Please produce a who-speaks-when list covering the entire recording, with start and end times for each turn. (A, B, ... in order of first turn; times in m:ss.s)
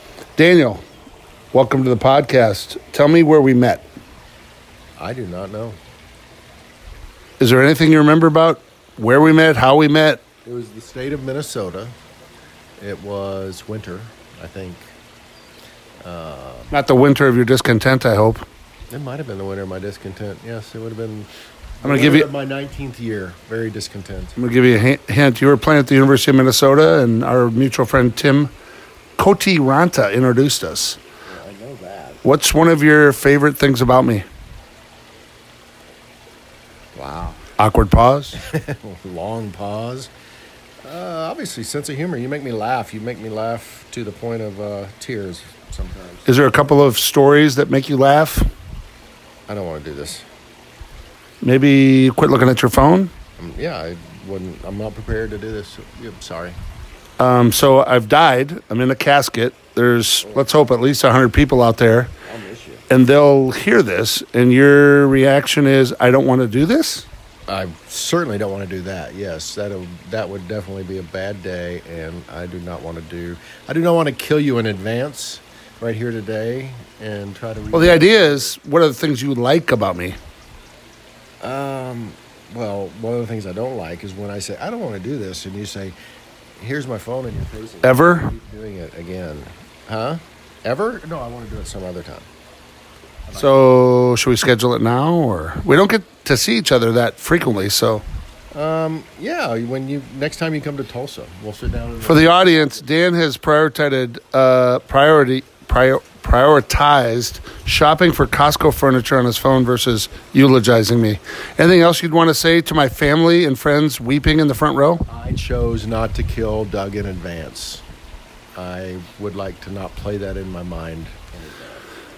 0:00.4-0:00.8 A
0:01.5-0:03.8 A
0:05.0-0:05.8 B
0:07.4-0:10.2 A
0:10.4-0:11.9 B
0:12.8-0:14.9 B
0:16.0-0:16.8 B
0:16.7-0:18.4 A
0:18.9-0:21.3 B
0:21.8-0:24.4 B
0:21.8-0:22.3 A
0:24.4-0:28.5 A
0:29.2-0:31.0 A
0:31.3-0:32.2 B
0:32.2-0:34.2 A
0:36.9-0:37.4 B
0:37.6-0:38.4 A
0:38.3-0:40.1 B
0:40.8-0:46.6 B
0:46.3-0:48.4 A
0:49.5-0:50.2 B
0:51.4-0:53.1 A
0:53.4-0:56.6 B
0:57.2-1:02.1 A
1:00.2-1:00.5 B
1:02.2-1:02.8 B
1:02.9-1:07.0 A
1:07.5-1:18.5 B
1:17.7-1:20.2 A
1:21.4-1:26.0 B
1:26.6-1:32.3 B
1:27.8-1:28.3 A
1:33.3-1:33.6 B
1:33.3-1:38.0 A
1:38.5-1:42.8 B
1:42.0-1:55.0 A
1:55.1-1:57.8 B
1:58.6-2:01.8 B